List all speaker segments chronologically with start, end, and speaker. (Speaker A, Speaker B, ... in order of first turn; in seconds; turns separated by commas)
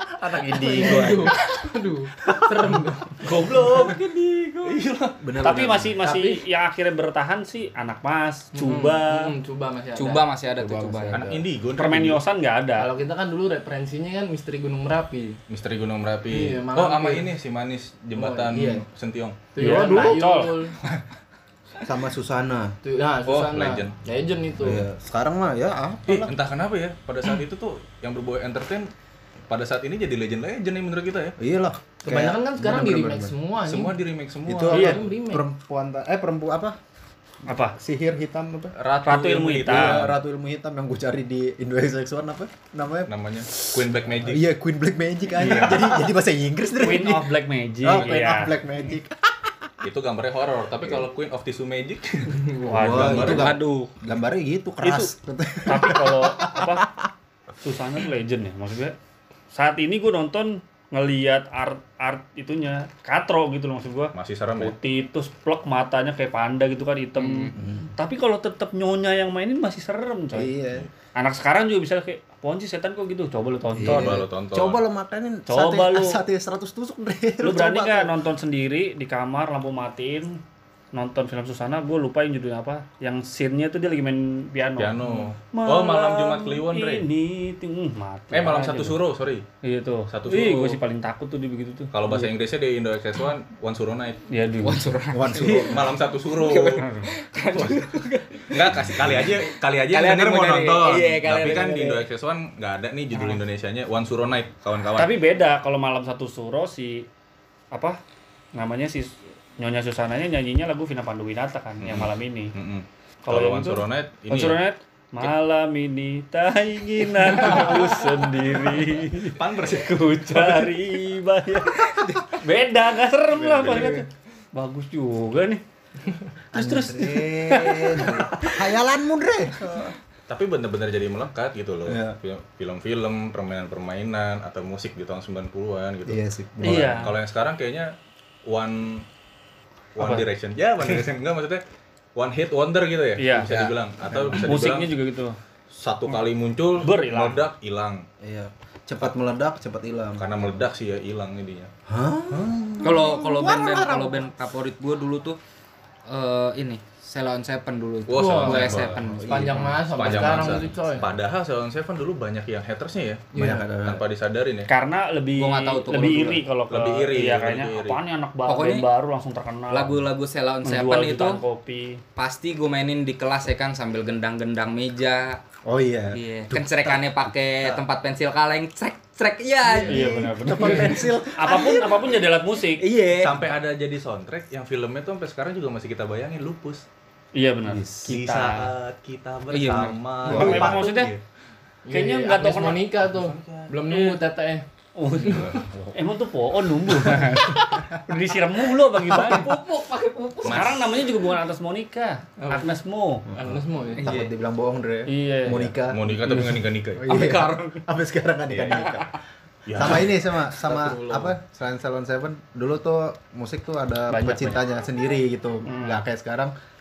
Speaker A: 0.2-1.4, Speaker B: 0.5-3.9, Speaker C: 3.2-4.7, Speaker D: 4.6-5.2, Speaker A: 5.2-6.0, Speaker C: 5.4-9.3, Speaker B: 6.0-6.4, Speaker E: 8.6-9.0, Speaker B: 8.7-10.2, Speaker E: 9.9-11.2, Speaker A: 10.6-11.4, Speaker D: 11.1-12.2, Speaker C: 11.8-12.9, Speaker B: 12.8-15.4, Speaker D: 15.5-19.4, Speaker B: 16.3-17.3, Speaker B: 18.1-18.9, Speaker B: 19.5-20.8, Speaker C: 19.6-20.6, Speaker A: 21.9-22.7, Speaker B: 22.8-24.8, Speaker D: 23.2-23.9, Speaker A: 24.6-26.3, Speaker D: 26.1-28.9, Speaker D: 29.5-31.3, Speaker A: 31.4-33.3, Speaker B: 32.0-34.0, Speaker D: 33.6-35.0, Speaker A: 34.5-36.8, Speaker B: 34.7-35.4, Speaker C: 34.7-35.0, Speaker C: 37.5-37.8, Speaker A: 37.8-38.7, Speaker D: 38.8-40.2, Speaker C: 39.0-40.0, Speaker A: 39.7-47.3, Speaker D: 43.1-44.5, Speaker D: 45.4-46.1, Speaker C: 46.8-48.5, Speaker A: 47.8-49.5, Speaker D: 47.9-48.1, Speaker D: 49.8-53.6, Speaker A: 52.6-57.1, Speaker C: 52.7-53.3, Speaker E: 53.1-53.9, Speaker C: 54.8-55.1, Speaker C: 55.6-56.8, Speaker C: 57.6-59.0, Speaker C: 59.5-70.5, Speaker D: 64.1-64.7, Speaker E: 67.2-67.5, Speaker A: 67.5-67.9, Speaker A: 70.3-70.9, Speaker C: 71.1-74.2, Speaker A: 73.7-78.1, Speaker D: 73.8-74.8, Speaker C: 75.5-76.2, Speaker C: 77.4-80.4, Speaker C: 80.9-89.0, Speaker D: 84.8-87.0, Speaker D: 88.3-89.4, Speaker C: 89.6-92.3, Speaker D: 90.1-90.8, Speaker D: 91.9-94.2, Speaker C: 94.3-94.9, Speaker E: 94.6-102.0, Speaker A: 95.1-96.0, Speaker D: 95.3-96.8, Speaker D: 97.5-97.9, Speaker D: 98.5-105.1, Speaker C: 105.0-107.0, Speaker C: 107.7-108.0, Speaker C: 108.5-112.5, Speaker D: 111.8-114.6, Speaker C: 113.2-119.4, Speaker D: 117.4-117.7, Speaker D: 118.7-120.8, Speaker C: 120.2-125.6, Speaker A: 123.4-124.0, Speaker D: 123.5-124.0, Speaker A: 126.5-129.9, Speaker C: 126.5-128.5, Speaker D: 130.3-137.9, Speaker A: 131.9-132.2, Speaker A: 136.1-137.1, Speaker C: 136.6-137.1, Speaker D: 138.5-139.0, Speaker D: 139.9-141.6, Speaker C: 140.0-140.2, Speaker D: 142.1-144.9, Speaker C: 143.2-143.5, Speaker A: 143.4-144.4, Speaker C: 144.4-145.3, Speaker D: 145.7-148.0, Speaker C: 146.8-147.4, Speaker A: 148.2-150.6, Speaker D: 150.2-151.7, Speaker A: 151.9-154.3, Speaker D: 152.3-152.6, Speaker E: 152.8-155.4, Speaker E: 156.1-159.5, Speaker D: 158.1-159.1, Speaker B: 158.2-161.1, Speaker A: 158.7-160.5, Speaker D: 159.8-164.7, Speaker B: 163.3-163.6, Speaker A: 163.3-164.0, Speaker C: 164.7-170.0, Speaker E: 165.3-166.4, Speaker D: 166.7-168.0, Speaker E: 168.4-168.9, Speaker E: 169.7-171.4, Speaker C: 170.6-172.0, Speaker E: 172.2-175.4, Speaker A: 175.7-177.3, Speaker E: 176.1-180.1, Speaker A: 179.6-182.2, Speaker C: 179.8-182.8, Speaker E: 182.8-183.3, Speaker D: 183.1-186.8, Speaker C: 187.3-188.7, Speaker A: 187.6-188.1, Speaker D: 188.1-191.2, Speaker E: 189.5-190.0, Speaker A: 190.2-190.8, Speaker C: 190.3-191.1, Speaker B: 191.9-194.6, Speaker C: 191.9-192.8, Speaker D: 193.0-193.7, Speaker C: 193.9-194.2, Speaker C: 195.0-199.6, Speaker B: 195.3-195.6, Speaker D: 195.3-195.9, Speaker A: 199.1-199.4, Speaker E: 199.2-200.7, Speaker D: 200.4-201.0, Speaker C: 200.4-203.2, Speaker B: 202.4-202.7, Speaker B: 203.3-204.1, Speaker A: 203.3-209.2, Speaker E: 204.0-204.3, Speaker C: 205.1-205.7, Speaker D: 205.9-207.3, Speaker E: 207.1-207.6, Speaker D: 208.5-208.9, Speaker D: 209.7-211.1, Speaker A: 209.7-216.5, Speaker C: 214.1-214.6, Speaker C: 215.7-216.0